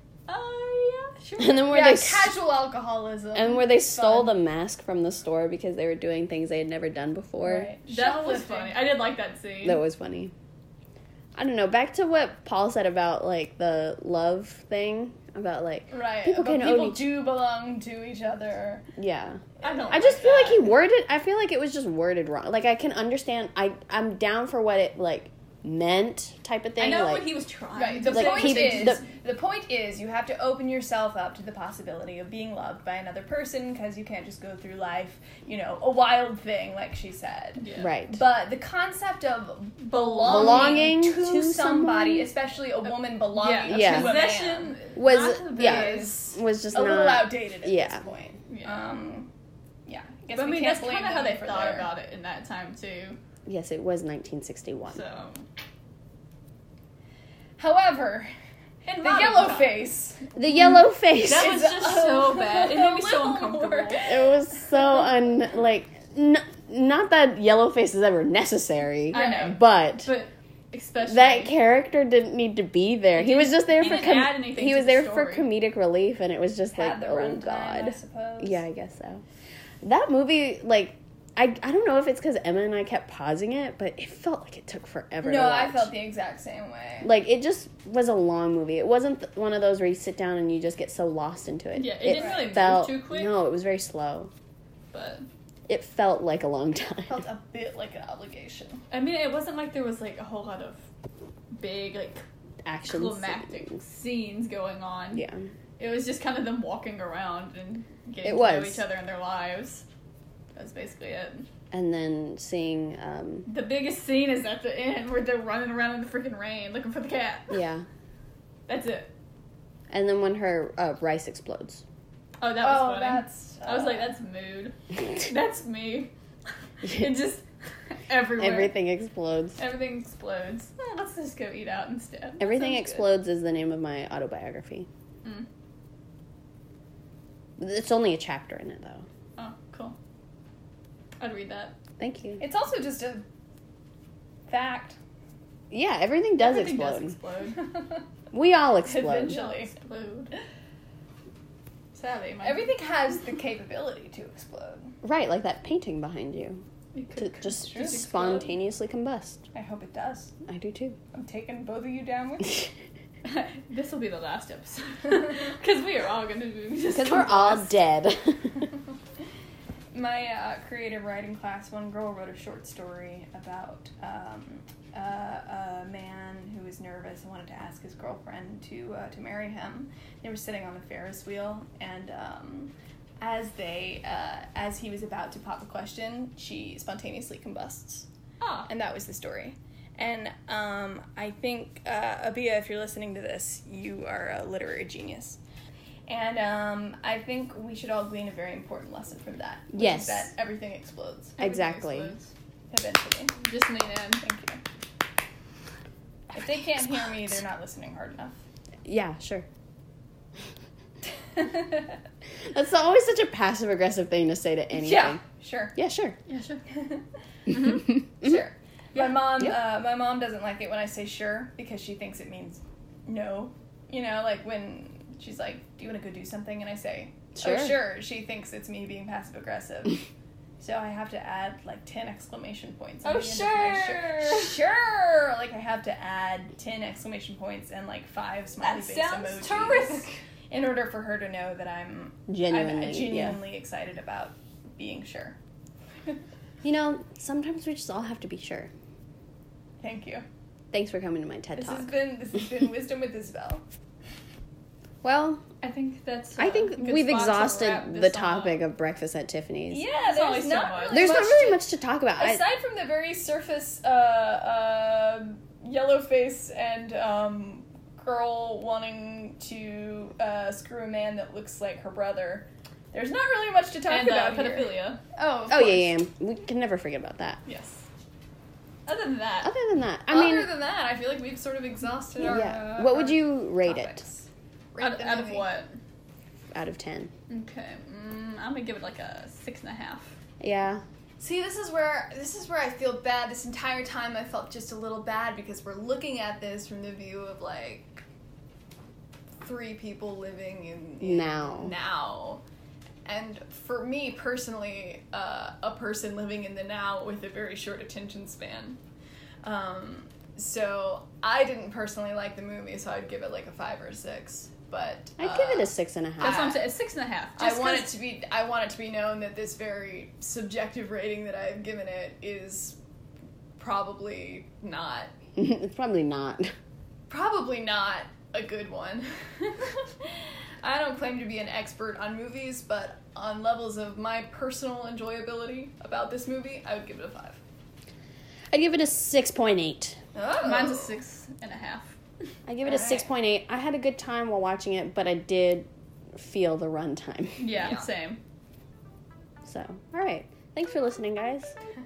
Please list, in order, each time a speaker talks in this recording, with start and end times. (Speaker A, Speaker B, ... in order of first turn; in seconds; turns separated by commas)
Speaker A: 0.3-1.7, Speaker B: 1.4-2.3, Speaker C: 1.7-4.3, Speaker B: 3.3-7.7, Speaker C: 7.4-8.8, Speaker A: 7.9-9.8, Speaker B: 9.6-10.3, Speaker B: 11.3-17.1, Speaker C: 15.9-18.8, Speaker B: 19.0-27.3, Speaker C: 19.6-20.6, Speaker A: 19.6-20.7, Speaker A: 26.8-29.0, Speaker C: 27.8-44.8, Speaker B: 28.1-29.0, Speaker A: 37.6-37.9, Speaker B: 37.8-38.2, Speaker A: 39.8-40.9, Speaker B: 40.2-42.3, Speaker A: 43.2-46.2, Speaker B: 43.6-44.4, Speaker B: 44.9-48.0, Speaker C: 45.5-49.3, Speaker A: 48.5-49.0, Speaker C: 49.9-51.9, Speaker A: 50.3-53.2, Speaker B: 53.5-55.0, Speaker A: 54.9-55.4, Speaker C: 57.6-58.3, Speaker A: 58.8-59.8, Speaker C: 59.0-60.2, Speaker B: 60.4-61.6, Speaker A: 60.5-64.1, Speaker C: 61.2-64.3, Speaker B: 64.0-70.1, Speaker A: 69.1-71.5, Speaker B: 71.0-79.2, Speaker A: 73.1-75.5, Speaker C: 76.7-78.6, Speaker B: 79.8-85.9, Speaker C: 85.2-87.1, Speaker B: 87.0-94.3, Speaker A: 91.7-93.4, Speaker C: 92.1-92.5, Speaker A: 94.9-95.2, Speaker B: 95.7-97.2, Speaker C: 97.1-98.8, Speaker A: 98.9-100.8, Speaker A: 101.5-102.2, Speaker B: 102.6-103.8, Speaker A: 102.8-105.2, Speaker B: 105.1-105.4, Speaker A: 105.8-109.8, Speaker B: 108.2-108.8, Speaker A: 110.5-111.5, Speaker B: 111.7-113.5, Speaker A: 113.5-117.6, Speaker B: 117.5-117.8, Speaker A: 118.7-119.1, Speaker B: 119.9-121.8, Speaker A: 122.4-126.1, Speaker C: 122.6-124.1, Speaker A: 126.8-128.7, Speaker B: 126.8-127.1, Speaker B: 128.3-129.6, Speaker A: 129.6-132.5, Speaker B: 132.4-134.9, Speaker C: 132.5-133.0, Speaker B: 137.6-139.1, Speaker A: 139.3-139.9, Speaker A: 141.2-141.8, Speaker B: 142.0-142.4, Speaker C: 142.4-143.2, Speaker C: 144.5-145.0, Speaker B: 145.7-147.1, Speaker A: 146.4-147.7, Speaker B: 148.3-149.4, Speaker C: 148.9-149.7, Speaker A: 148.9-150.3, Speaker A: 151.9-152.7, Speaker C: 152.4-154.9, Speaker B: 155.0-156.6, Speaker A: 156.9-158.6, Speaker B: 157.2-159.4, Speaker C: 159.5-160.3, Speaker B: 160.5-161.0, Speaker C: 161.1-162.7, Speaker A: 163.2-167.7, Speaker B: 166.9-168.7, Speaker C: 169.9-188.1, Speaker A: 188.4-188.7, Speaker C: 188.7-195.4, Speaker C: 196.1-202.1, Speaker B: 199.7-200.3, Speaker B: 201.4-202.1, Speaker A: 201.9-202.2, Speaker C: 202.7-203.4, Speaker A: 203.4-204.2, Speaker C: 204.2-204.6, Speaker C: 206.3-208.3, Speaker B: 208.8-209.4, Speaker B: 212.5-215.2, Speaker C: 214.7-215.8, Speaker B: 215.8-216.2, Speaker A: 216.3-216.6, Speaker C: 216.7-217.0, Speaker A: 217.5-217.8, Speaker C: 218.2-230.0, Speaker B: 227.3-227.8, Speaker C: 230.6-245.4, Speaker A: 233.0-234.6, Speaker A: 238.6-240.2, Speaker B: 242.3-243.4, Speaker B: 246.6-248.7, Speaker C: 249.8-250.2, Speaker B: 250.7-251.9, Speaker C: 251.5-253.6, Speaker B: 255.0-255.4, Speaker A: 255.6-258.6, Speaker B: 256.4-259.8, Speaker C: 259.7-261.6, Speaker A: 259.9-261.1, Speaker B: 260.9-262.4, Speaker C: 262.2-276.0, Speaker A: 273.9-275.0, Speaker B: 275.5-277.4, Speaker A: 277.4-277.8, Speaker A: 278.9-279.5, Speaker B: 279.4-280.5, Speaker C: 280.1-285.5, Speaker B: 282.2-284.0, Speaker A: 284.8-285.7, Speaker B: 286.5-287.1, Speaker A: 287.3-290.1, Speaker B: 290.4-290.8, Speaker C: 291.2-298.0, Speaker C: 299.4-302.4, Speaker B: 301.0-301.7, Speaker C: 303.0-308.8, Speaker C: 309.4-316.6, Speaker B: 315.2-316.6, Speaker A: 316.2-317.9, Speaker C: 317.4-322.8, Speaker C: 323.6-325.1, Speaker B: 325.4-326.5, Speaker C: 327.1-337.4, Speaker B: 338.5-340.0, Speaker C: 340.1-341.0, Speaker A: 340.4-341.9, Speaker B: 342.4-347.4, Speaker C: 342.6-343.1, Speaker A: 347.4-348.2, Speaker C: 347.6-347.8, Speaker B: 349.4-351.5